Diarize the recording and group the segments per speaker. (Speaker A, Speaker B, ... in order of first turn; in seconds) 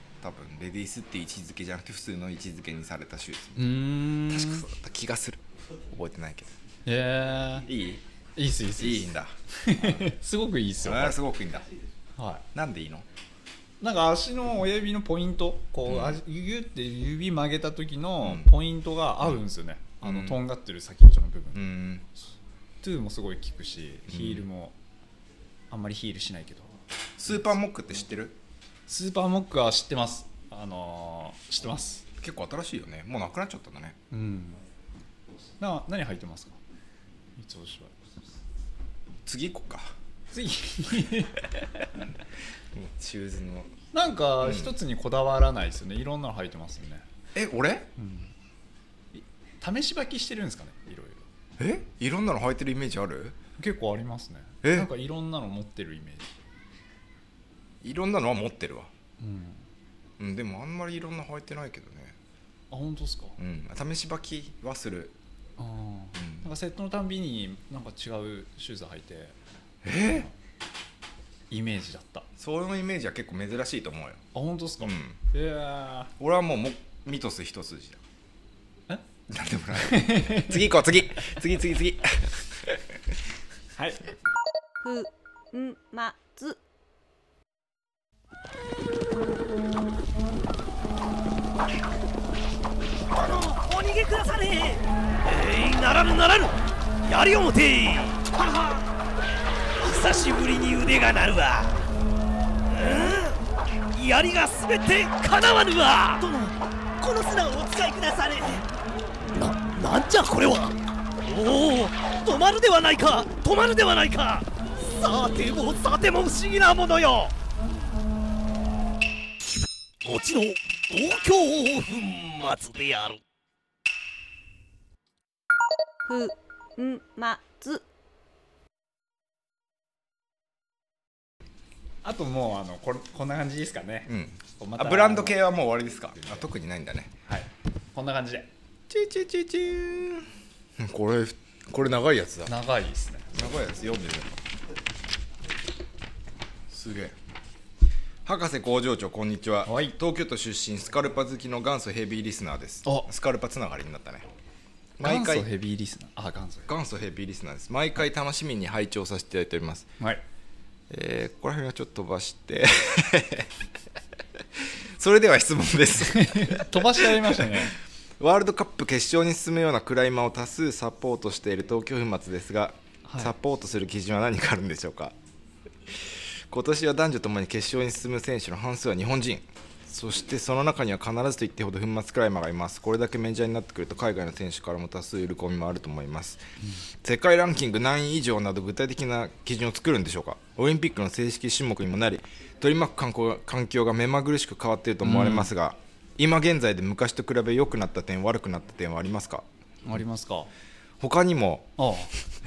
Speaker A: 0.2-6.5, 7.7-8.0, 8.8-10.1, 10.8-11.7, 12.5-13.1, 15.9-16.2, 18.2-18.5, 20.0-20.4, 21.5-22.1, 24.1-24.4, 27.2-28.4, 32.2-34.0, 39.3-40.0, 42.7-43.7, 44.4-44.8, 47.3-47.9, 51.6-53.4, 54.6-54.9, 57.8-58.9, 60.2-62.2, 63.4-65.2, 66.2-66.5, 69.8-70.3, 72.4-74.2, 74.8-75.2, 76.2-78.0, 79.3-83.0, 134.1-137.2, 138.9-142.5, 143.3-144.4, 146.7-147.2, 148.2-154.3, 155.0-155.5, 156.7-159.9, 160.9-163.5, 164.6-167.7, 168.2-175.2, 175.9-186.4, 187.0-199.5, 201.0-201.8
Speaker B: 3.6-4.7, 6.9-7.7, 8.4-11.2, 12.2-12.4, 13.8-21.7, 22.8-24.8, 25.7-26.7, 28.9-32.1, 34.1-34.6, 35.6-36.6, 37.4-37.9, 40.3-41.6, 43.9-47.0, 48.0-48.3, 49.1-51.2, 53.6-56.4, 59.2-59.6, 62.7-63.4, 65.6-69.4, 71.5-72.3, 74.3-76.1, 79.8-80.6, 83.8-84.0, 132.0-135.4, 137.3-138.5, 142.5-143.3, 149.7-150.0, 155.0-156.7, 166.0-167.8, 173.1-173.3, 195.0-195.5, 199.8-200.5, 201.8-202.1
Speaker C: 84.8-86.6, 126.1-127.8
Speaker D: 93.1-98.9, 99.8-101.8, 102.7-103.4, 103.9-108.7, 109.3-117.3, 120.0-123.2